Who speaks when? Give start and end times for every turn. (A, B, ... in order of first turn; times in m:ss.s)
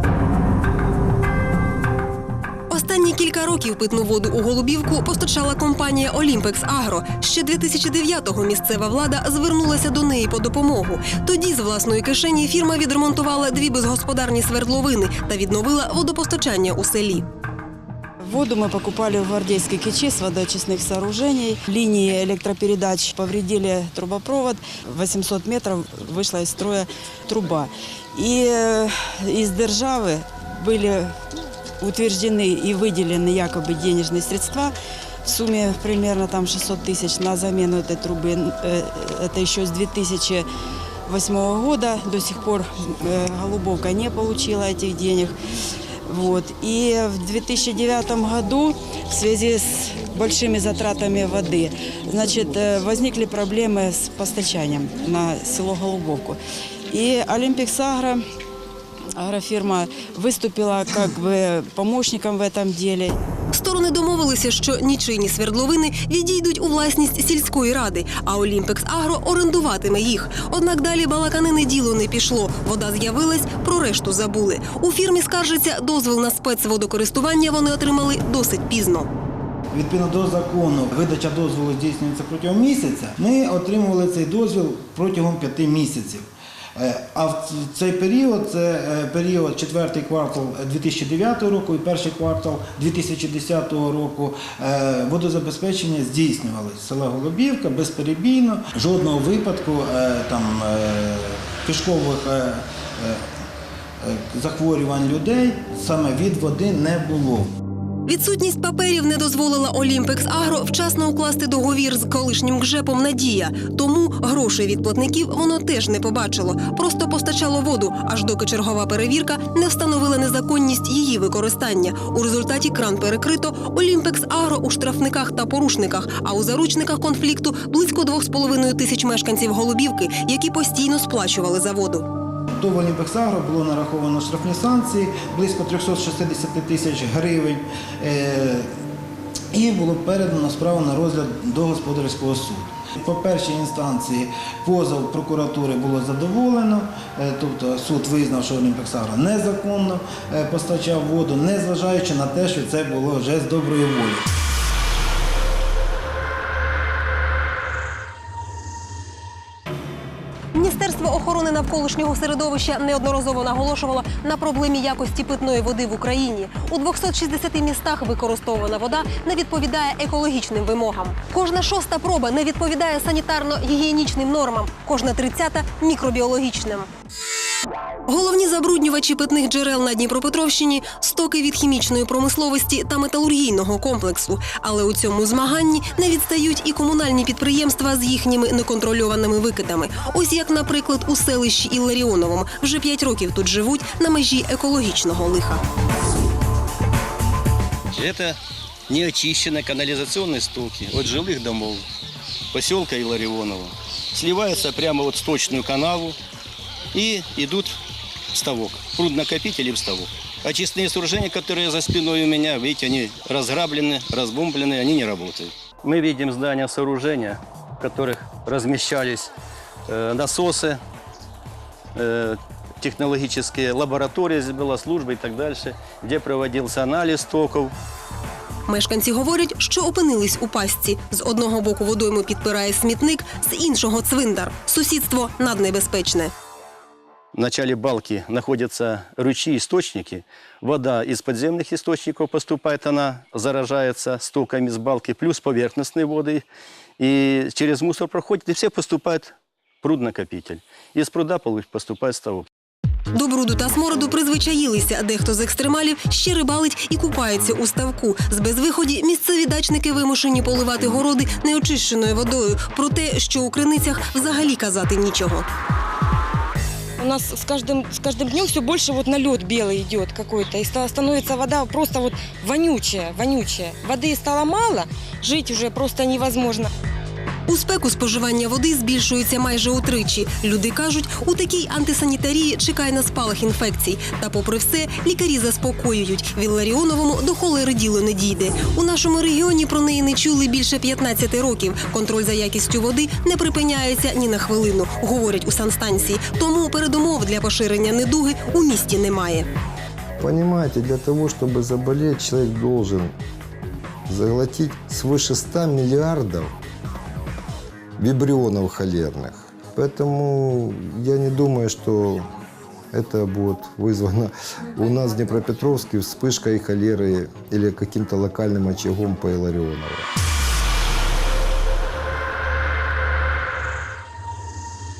0:02.7-0:17.3 A
0:18.3-0:31.2 B
0:31.8-0:34.7 B
0:35.2-0:40.5 B
0:41.1-0:45.3 B
0:46.1-0:56.4 B
0:56.9-0:58.2 B
0:59.2-1:03.2 B
1:03.5-1:19.1 A
1:19.7-1:43.2 C
1:44.0-1:47.5 C
1:48.1-2:12.1 A
2:12.6-2:18.7 C
2:19.5-2:34.2 C
2:40.5-2:56.9 A
2:58.1-3:15.6 A
3:18.0-3:18.4 D
3:18.9-3:21.8 D
3:22.5-3:26.2 D
3:26.9-3:27.8 D
3:28.3-3:39.3 D
3:39.9-3:40.8 D
3:42.0-3:47.7 D
3:48.7-3:56.3 A
3:57.4-4:06.4 D
4:07.0-4:12.5 D
4:13.1-4:25.5 A
4:27.0-4:36.7 E
4:37.5-4:59.5 A
5:00.2-5:03.1 F
5:04.1-5:06.5 F
5:08.0-5:12.3 F
5:12.9-5:20.1 F